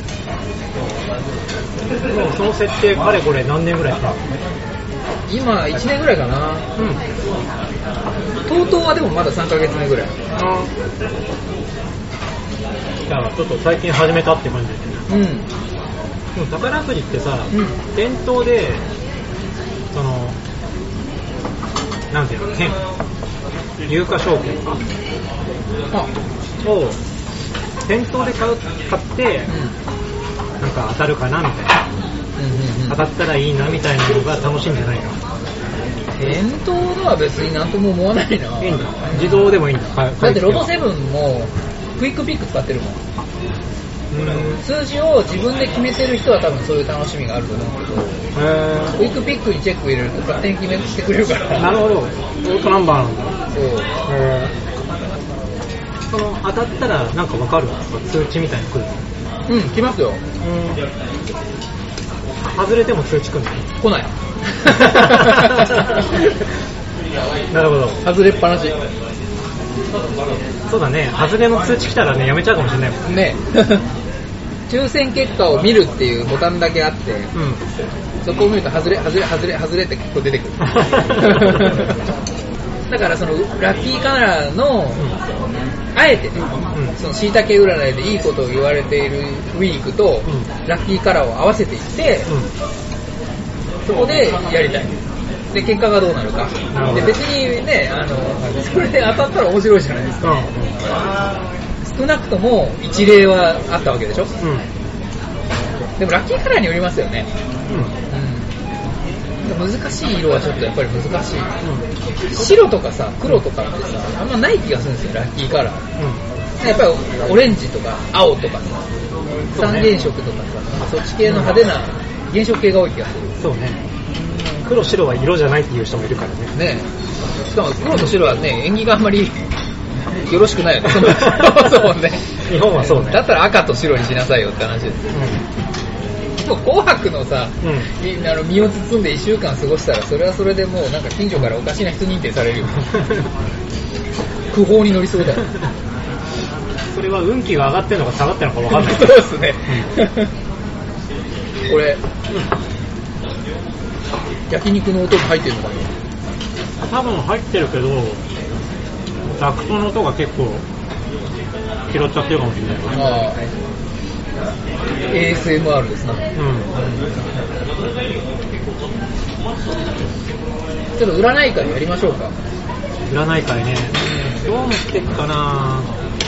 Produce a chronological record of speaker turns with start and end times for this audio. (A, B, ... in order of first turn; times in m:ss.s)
0:02.1-0:04.2 A
0:05.3-0:06.7 B
0:06.8-0:07.0 A
0:08.5-0:10.2 B
0:10.4-0:10.7 A
0:13.1-0:15.0 A
0:15.1-0:15.5 B
0:16.4-0:18.8 A
0:19.9-0:20.4 A
0:22.1-0:22.8 A
0:23.8-0:24.8 A
0:26.6-0:27.0 A
0:27.9-0:29.5 A
0:29.5-0:29.8 B
0:30.6-0:31.8 A
0:32.4-0:33.0 B
0:32.9-0:35.2 A
0:36.2-0:39.6 B
0:38.6-0:40.7 A
0:40.2-0:43.0 B
0:44.1-0:44.6 A
0:44.6-0:48.3 B
0:48.4-0:49.0 A
0:49.0-0:51.8 B
0:51.6-0:53.4 A
0:53.5-0:53.9 B
0:54.1-0:54.5 A
0:56.1-0:59.1 A
0:59.5-1:00.2 B
1:00.4-1:00.8 A
1:02.4-1:03.7 A
1:03.8-1:05.8 B
1:04.7-1:06.1 A
1:07.5-1:08.0 A
1:08.0-1:08.8 B
1:10.7-1:13.0 A
1:13.1-1:13.8 B
1:14.7-1:17.3 B
1:17.3-1:17.6 A
1:18.2-1:22.0 B
1:20.6-1:21.8 A
1:22.9-1:25.1 B
1:26.0-1:32.3 B
1:26.6-1:27.0 A
1:30.2-1:30.5 A
1:32.3-1:32.5 A
1:33.9-1:34.9 B
1:35.5-1:40.5 B
1:36.7-1:37.2 A
1:40.2-1:41.3 A
1:41.8-1:44.3 B
1:44.4-1:44.7 A
1:46.0-1:47.3 B
1:47.7-1:48.0 A
1:48.1-1:48.6 B
1:49.4-1:51.6 B
1:51.6-1:51.9 A
1:52.3-1:55.9 B
1:56.0-1:56.2 A
1:56.6-1:58.8 B
1:59.5-2:03.4 B
1:59.6-1:59.9 A
2:01.2-2:01.6 A
2:03.4-2:03.9 A
2:04.4-2:06.6 A
2:06.6-2:06.9 B
2:07.5-2:09.4 B
2:10.3-2:15.1 B
2:11.1-2:11.5 A
2:12.4-2:13.2 A
2:15.1-2:15.4 A
2:16.4-2:22.9 B
2:17.6-2:17.9 A
2:22.8-2:23.2 A
2:24.5-2:25.5 B
2:26.9-2:29.9 A
2:28.7-2:30.3 B
2:31.7-2:32.0 B
2:34.5-2:35.9 B
2:36.9-2:38.2 A
2:39.2-2:40.6 A
2:41.9-2:43.2 A
2:43.0-2:43.4 B
2:45.1-2:47.2 B
2:46.4-2:46.7 A
2:51.0-2:52.4 B
2:53.1-2:55.9 A
2:53.9-2:54.4 B